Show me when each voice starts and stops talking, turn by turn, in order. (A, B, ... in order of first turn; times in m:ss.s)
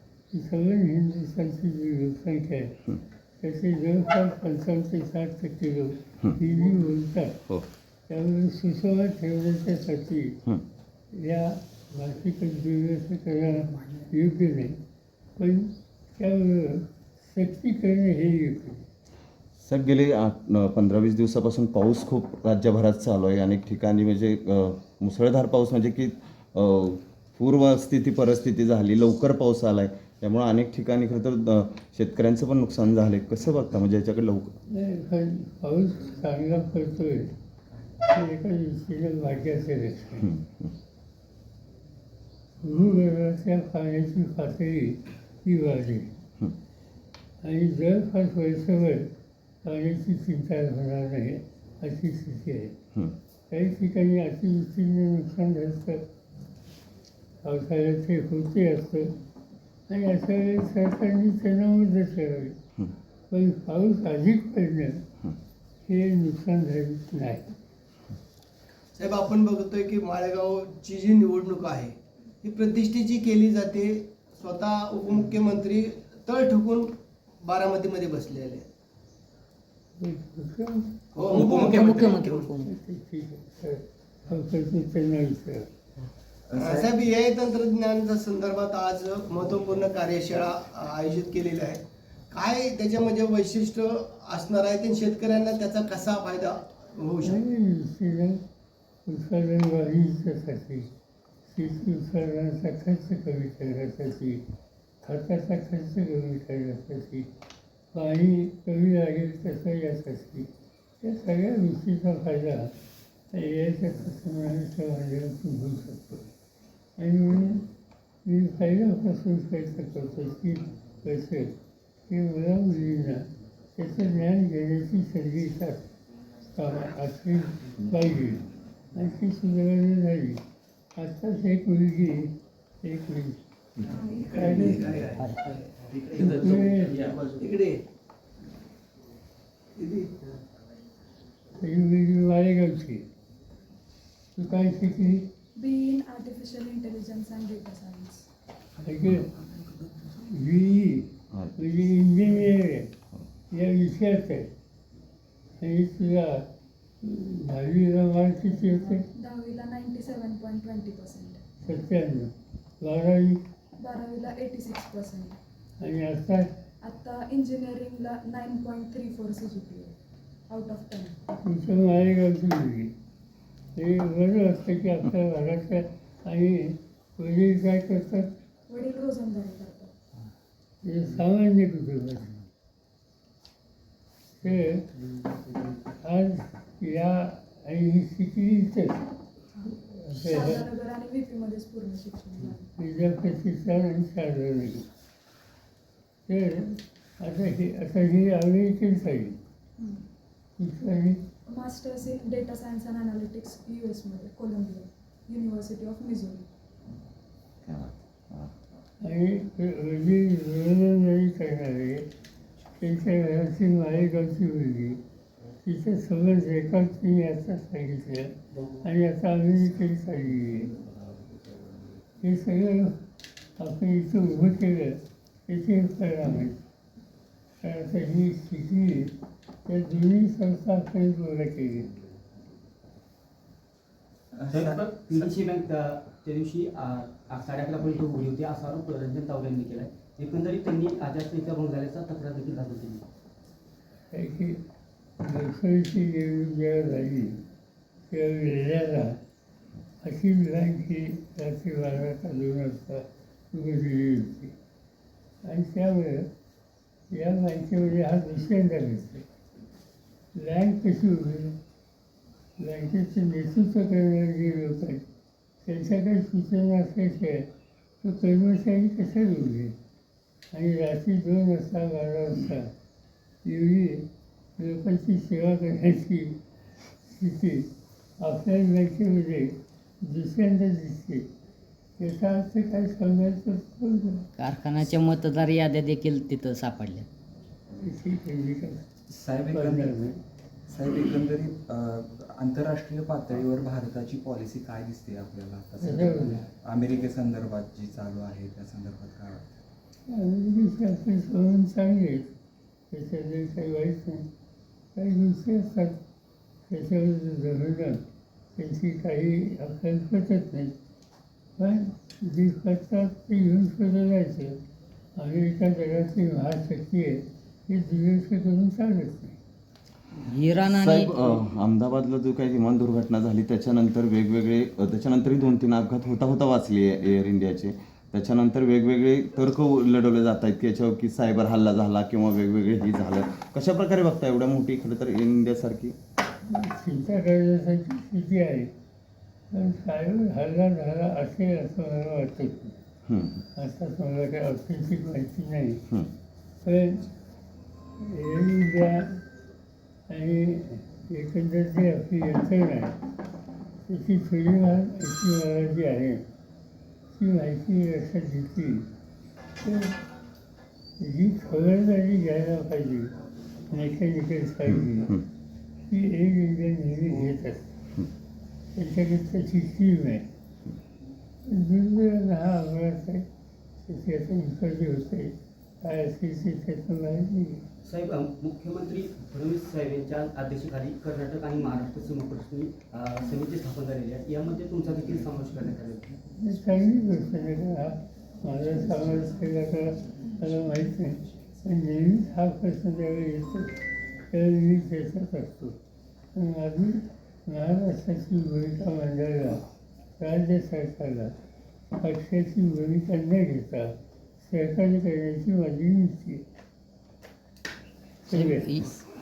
0:00.3-0:02.8 A
0:03.4-0:07.4 A
0:08.1-0:10.4 A
0:11.1-0:14.8 A
0:15.4-0:18.8 A
0:19.6-0:34.5 B
0:34.7-0:37.3 A
0:38.1-0:40.3 A
0:42.6-0:46.1 A
0:47.4-0:49.1 A
0:49.6-0:52.7 A
0:53.5-0:56.0 A
0:57.4-0:59.1 A
0:59.9-1:02.6 A
1:03.3-1:05.0 A
1:05.8-1:07.5 A
1:09.0-1:16.9 C
1:17.4-1:18.6 C
1:20.0-1:21.0 A
1:21.1-1:22.5 C
1:21.2-1:22.6 D
1:22.6-1:25.7 A
1:26.5-1:26.9 E
1:26.5-1:37.4 C
1:37.2-1:38.4 A
1:39.0-1:40.9 A
1:41.5-1:44.4 A
1:45.0-1:47.3 A
1:47.9-1:50.5 A
1:51.0-1:52.7 A
1:53.3-1:56.2 A
1:57.0-1:57.7 A
1:58.2-2:01.5 A
2:02.1-2:05.9 A
2:06.5-2:10.4 A
2:10.9-2:13.4 A
2:14.2-2:14.9 A
2:14.3-2:15.3 C
2:15.5-2:17.3 F
2:16.2-2:17.8 C
2:16.3-2:16.9 A
2:19.8-2:20.1 C
2:21.6-2:23.0 A
2:24.4-2:25.3 A
2:25.6-2:28.3 G
2:28.8-2:29.3 A
2:30.1-2:32.9 A
2:33.5-2:34.5 A
2:35.6-2:36.5 A
2:37.0-2:39.0 A
2:39.1-2:41.4 G
2:41.6-2:43.4 A
2:43.8-2:45.4 G
2:45.8-2:46.5 A
2:46.8-2:49.9 G
2:50.5-2:51.2 G
2:51.4-2:52.9 A
2:53.8-2:58.3 A
2:58.7-2:59.9 G
3:00.8-3:02.4 A
3:04.4-3:04.9 A
3:05.9-3:09.0 A
3:09.8-3:10.6 A
3:10.2-3:12.6 G
3:12.8-3:14.9 A
3:16.3-3:19.4 A
3:19.8-3:20.0 G
3:20.6-3:21.2 A
3:21.5-3:26.4 G
3:27.6-3:28.5 B
3:29.0-3:32.1 A
3:32.8-3:35.0 A
3:35.6-3:40.7 A
3:42.2-3:43.0 A
3:43.6-3:46.6 A
3:47.6-3:49.1 A
3:49.6-3:52.0 A
3:54.3-3:55.3 E
3:54.5-4:03.0 F
4:04.1-4:04.6 A
4:05.2-4:07.4 A
4:08.1-4:09.2 A
4:10.0-4:14.5 A
4:15.4-4:16.3 A
4:17.1-4:19.2 A
4:20.3-4:21.6 A
4:22.6-4:25.0 A
4:25.6-4:27.5 A
4:28.0-4:29.8 A
4:30.5-4:32.7 A
4:33.4-4:34.1 A
4:34.6-4:36.4 A
4:37.0-4:37.7 A
4:38.2-4:41.3 A
4:42.0-4:44.2 A
4:44.4-4:47.0 D
4:47.8-4:48.8 A
4:49.1-4:50.0 E
4:49.5-4:50.2 A
4:50.7-4:59.5 E
4:55.8-4:56.4 A
5:00.1-5:02.3 A
5:02.9-5:04.2 A
5:04.9-5:06.0 A
5:06.7-5:08.0 A
5:08.6-5:10.7 A
5:11.6-5:14.6 A
5:15.2-5:19.4 A
5:20.2-5:21.4 D
5:20.6-5:35.9 B
5:36.4-5:38.7 A
5:39.5-5:42.8 A
5:43.1-5:43.4 B
5:43.5-5:45.8 A
5:46.6-5:47.1 A
5:48.0-5:49.2 A
5:50.1-5:53.0 A
5:53.8-5:56.2 A
5:57.2-5:58.9 A
5:59.6-6:00.0 A
6:01.0-6:03.1 A
6:03.7-6:05.2 A
6:05.9-6:07.7 A
6:08.7-6:10.2 A
6:11.4-6:13.2 A
6:13.8-6:17.6 A
6:17.8-6:26.2 F
6:26.3-6:35.8 A
6:36.3-6:39.6 A
6:40.2-6:41.3 A
6:42.0-6:46.4 A
6:48.2-6:48.8 A
6:48.3-6:48.8 D